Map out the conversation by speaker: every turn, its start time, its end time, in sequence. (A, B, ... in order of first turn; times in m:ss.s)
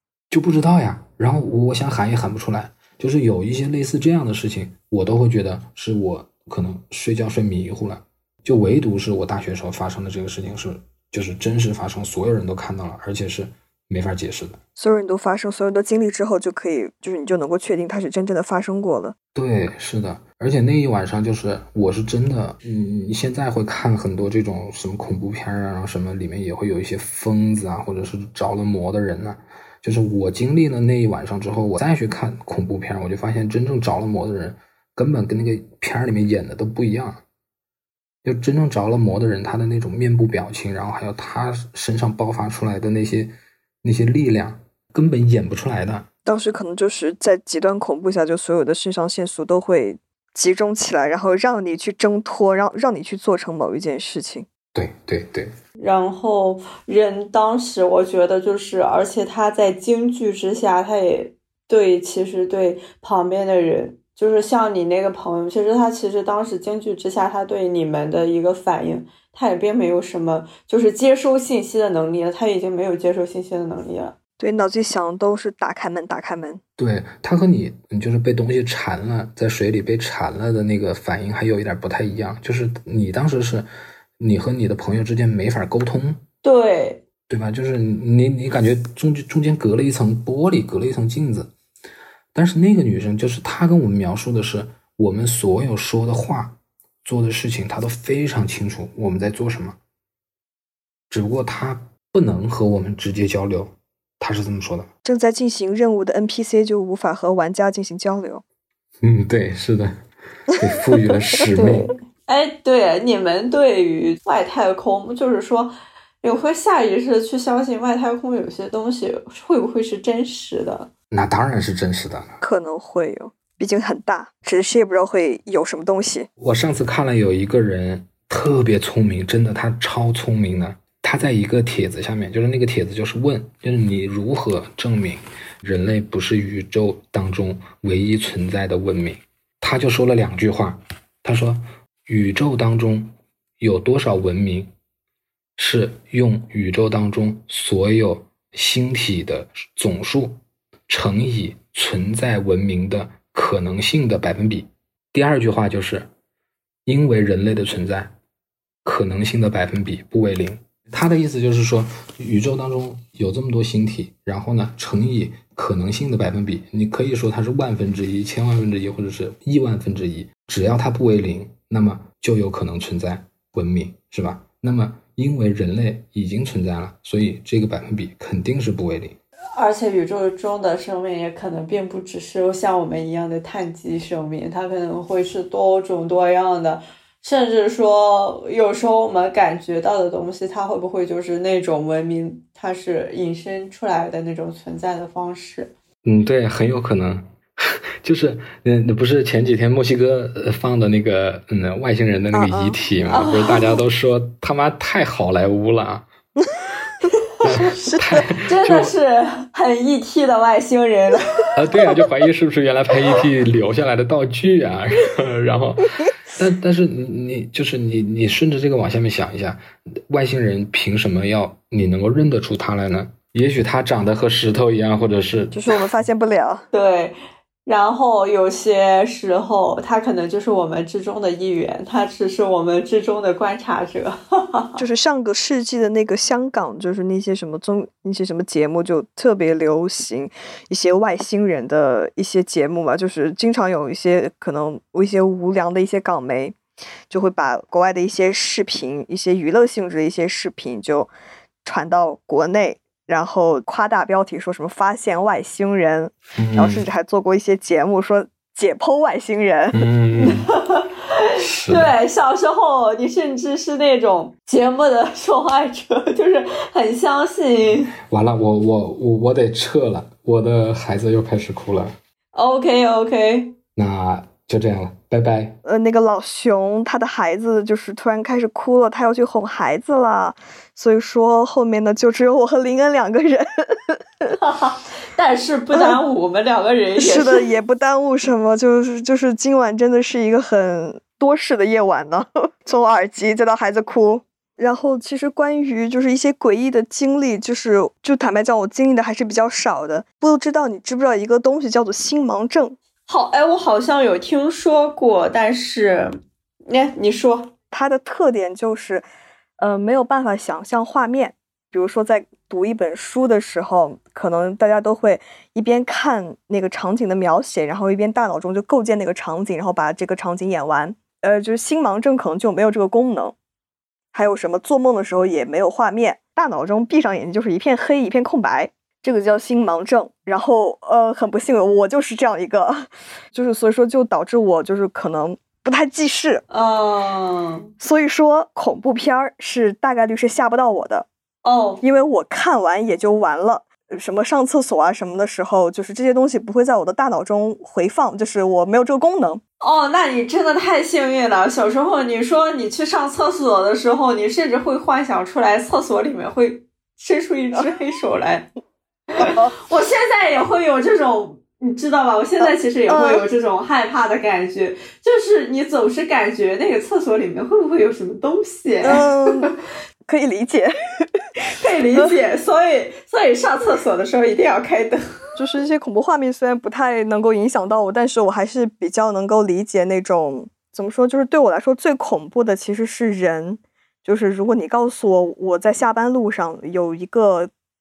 0:00.3-0:14.6 A
0:14.8-0:19.1 B
0:19.3-0:37.2 A
0:38.2-0:46.1 A
0:46.3-0:54.5 B
0:54.7-0:55.5 A
0:55.8-1:14.1 C
1:14.4-1:16.6 B
1:16.8-1:23.7 A
1:24.2-1:26.2 A
1:26.4-1:27.0 C
1:27.3-1:31.5 A
1:32.3-1:39.8 A
1:41.1-1:44.9 A
1:45.0-1:48.4 B
1:49.0-1:49.9 A
1:50.5-1:51.9 A
1:51.5-2:00.9 C
2:01.1-2:02.4 A
2:02.4-2:06.3 B
2:06.4-2:24.7 A
2:25.6-2:30.4 A
2:30.9-2:36.1 A
2:36.9-2:38.1 A
2:38.8-2:59.2 A
2:59.6-3:15.7 C
3:16.0-3:26.1 A
3:22.3-3:22.8 B
3:23.1-3:23.7 C
3:27.4-3:28.9 A
3:27.6-3:28.0 B
3:28.4-3:31.5 C
3:31.6-3:45.8 A
3:45.5-3:46.6 B
3:46.7-3:54.8 C
3:54.8-4:06.6 B
4:07.1-4:11.1 B
4:11.6-4:19.8 B
4:16.4-4:16.9 A
4:19.7-4:20.5 A
4:20.2-4:20.9 C
4:21.4-4:21.9 A
4:21.6-4:27.9 C
4:28.1-4:32.0 A
4:32.3-4:33.6 C
4:33.8-4:35.6 A
4:35.6-4:44.3 B
4:44.3-4:47.4 C
4:45.7-4:46.0 B
4:47.0-5:02.8 B
5:03.1-5:06.1 C
5:06.6-5:07.5 C
5:07.7-5:09.0 B
5:09.6-5:23.4 B
5:24.1-5:36.4 B
5:36.5-5:37.7 C
5:37.8-5:41.1 B
5:41.4-5:41.8 C
5:41.8-5:49.4 B
5:49.6-5:58.5 C
5:59.1-6:09.5 C
5:59.2-5:59.5 B
6:02.9-6:03.2 B
6:08.8-6:09.5 B
6:10.0-6:11.2 B
6:11.4-6:15.0 C
6:15.4-6:27.5 B